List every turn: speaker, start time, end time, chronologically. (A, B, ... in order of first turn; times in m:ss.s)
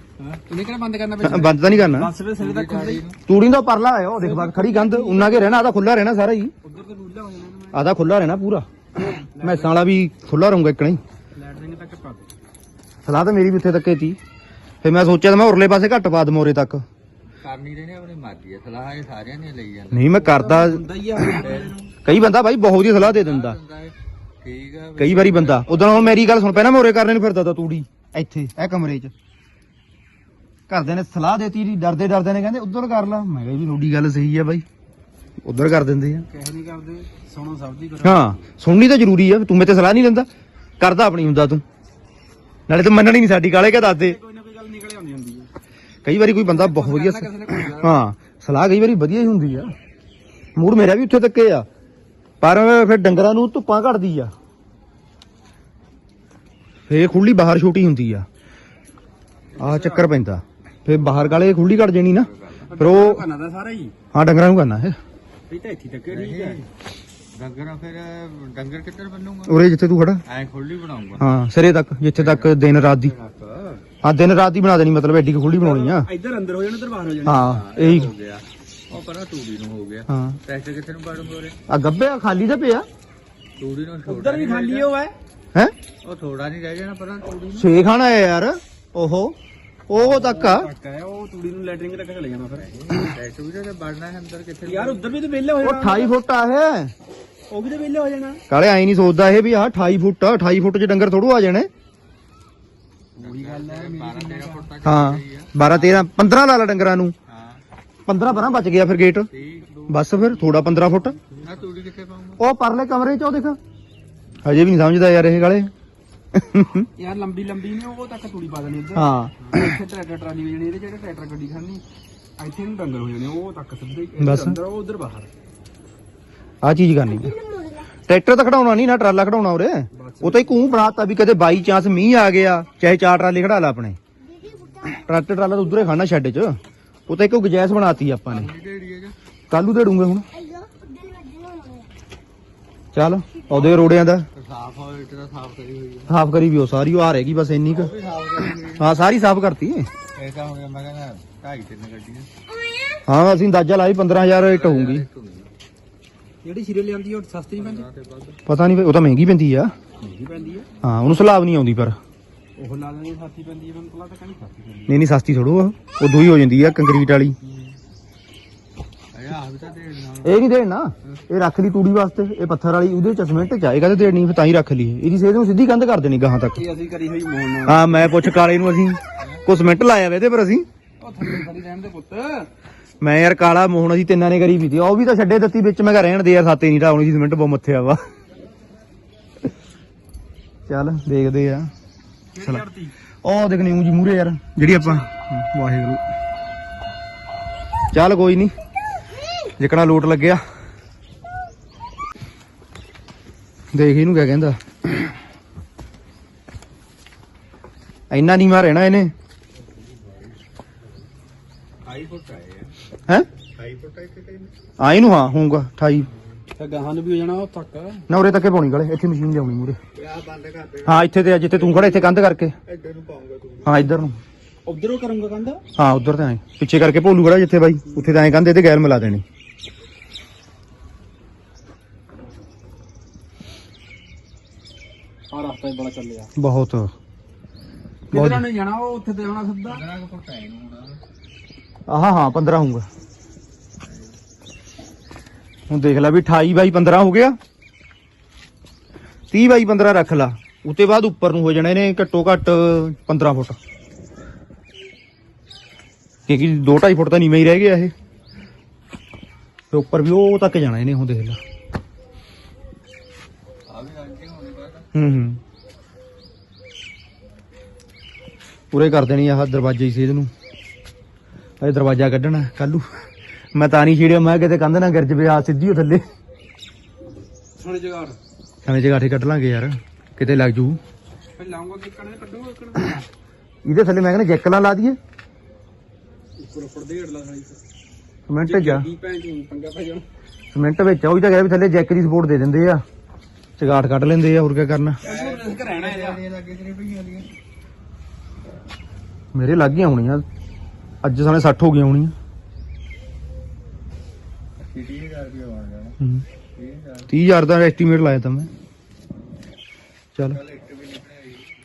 0:00.5-0:03.0 A
0:01.2-0:02.1 B
0:02.4-0:03.2 C
0:03.3-0:06.5 B
0:04.2-0:05.6 A
0:06.6-0:07.8 A
0:07.7-0:08.7 B
0:09.0-0:09.8 A
0:09.4-0:11.0 B
0:11.4-0:12.3 A
0:13.1-0:14.2 B
0:14.8-0:16.8 B
0:17.4-0:20.2 C
0:19.9-0:20.8 B
0:20.2-0:21.9 A
0:21.4-0:21.8 C
0:22.0-0:23.6 B
0:22.9-0:26.6 C
0:25.0-0:29.1 B
0:30.7-0:34.6 B
0:35.4-0:36.3 B
0:36.3-0:38.4 A
0:38.0-0:40.3 B
0:40.8-0:41.6 B
0:42.7-0:44.2 B
0:43.6-0:45.5 A
0:46.0-0:49.8 B
0:46.5-0:48.0 A
0:50.6-0:51.7 B
0:52.4-0:54.3 B
0:56.9-0:58.3 B
0:59.6-1:00.1 A
0:59.6-1:03.2 B
1:00.9-1:02.7 C
1:02.6-1:03.9 A
1:04.1-1:05.0 B
1:05.5-1:06.6 A
1:06.1-1:06.7 C
1:07.3-1:09.6 C
1:09.5-1:10.2 B
1:10.3-1:11.3 C
1:11.2-1:13.1 B
1:12.2-1:13.8 C
1:14.0-1:16.1 B
1:15.6-1:17.5 A
1:17.2-1:18.2 B
1:17.4-1:21.6 C
1:20.1-1:20.4 B
1:21.7-1:22.9 B
1:23.6-1:24.9 C
1:24.1-1:25.1 A
1:26.0-1:27.7 C
1:27.6-1:29.4 B
1:29.9-1:30.7 B
1:29.9-1:32.7 A
1:32.4-1:35.2 C
1:34.7-1:36.1 A
1:35.6-1:36.9 B
1:37.5-1:38.4 A
1:38.5-1:41.7 B
1:43.2-1:44.7 A
1:43.2-1:46.1 C
1:44.8-1:47.2 B
1:47.3-1:47.6 C
1:48.1-1:49.3 B
1:49.3-1:49.8 C
1:49.5-1:51.7 A
1:49.9-1:51.2 B
1:51.4-1:52.4 C
1:52.4-1:53.6 B
1:54.4-1:55.7 B
1:56.3-1:56.9 B
1:57.0-2:01.8 A
1:59.0-1:59.3 B
2:02.4-2:05.3 A
2:04.2-2:04.6 B
2:06.6-2:07.4 B
2:08.1-2:14.0 B
2:10.0-2:10.6 A
2:14.9-2:18.5 B
2:18.3-2:19.2 C
2:19.5-2:20.3 B
2:22.9-2:24.3 B
2:23.5-2:26.1 C
2:26.1-2:27.9 B
2:27.7-2:28.9 C
2:28.8-2:29.9 B
2:30.2-2:32.3 C
2:33.1-2:35.1 B
2:34.4-2:35.5 C
2:36.4-2:37.9 A
2:37.5-2:38.4 C
2:38.5-2:39.7 B
2:40.0-2:40.7 A
2:40.8-2:42.0 B
2:42.6-2:45.0 A
2:44.9-2:47.4 B
2:47.4-2:47.8 A
2:49.1-2:50.4 C
2:50.2-2:56.6 B
2:56.6-2:58.1 A
2:57.6-3:00.7 B
2:59.2-2:59.4 C
3:01.0-3:02.5 A
3:03.0-3:08.0 B
3:10.7-3:11.7 B
3:12.3-3:12.9 A
3:13.2-3:16.0 B
3:14.8-3:15.1 A
3:17.9-3:18.5 B
3:19.6-3:20.4 B
3:23.7-3:25.1 B
3:28.1-3:29.1 B
3:29.7-3:30.4 C
3:31.8-3:32.7 C
3:33.6-3:34.5 C
3:34.8-3:36.1 B
3:36.6-3:38.0 A
3:38.1-3:39.8 B
3:40.0-3:42.1 C
3:40.9-3:42.5 B
3:42.7-3:43.9 C
3:43.6-3:44.2 B
3:44.7-3:45.6 A
3:45.8-3:49.2 B
3:55.3-3:56.3 A
3:56.4-3:56.9 B
3:58.1-3:58.5 B
3:58.1-3:59.8 A
3:59.7-4:01.0 C
4:01.9-4:02.8 B
4:03.8-4:04.1 C
4:05.7-4:07.4 B
4:09.3-4:13.6 B
4:16.3-4:17.9 B
4:19.7-4:21.4 B
4:23.7-4:24.9 C
4:25.0-4:25.4 B
4:28.7-4:30.3 B
4:31.6-4:32.9 B
4:33.6-4:36.0 B
4:37.6-4:38.2 A
4:38.6-4:40.8 B
4:41.4-4:43.1 A
4:43.6-4:45.0 B
4:46.4-4:47.6 A
4:48.3-4:48.9 B
4:48.4-4:50.0 A
4:50.5-4:52.8 B
4:53.6-4:55.0 B
4:55.0-4:57.3 C
4:55.0-4:56.2 A
4:59.3-5:00.2 B
5:01.0-5:02.1 B
5:04.6-5:06.0 C
5:06.0-5:06.2 B
5:06.6-5:07.1 C
5:07.1-5:08.5 B
5:10.3-5:11.5 C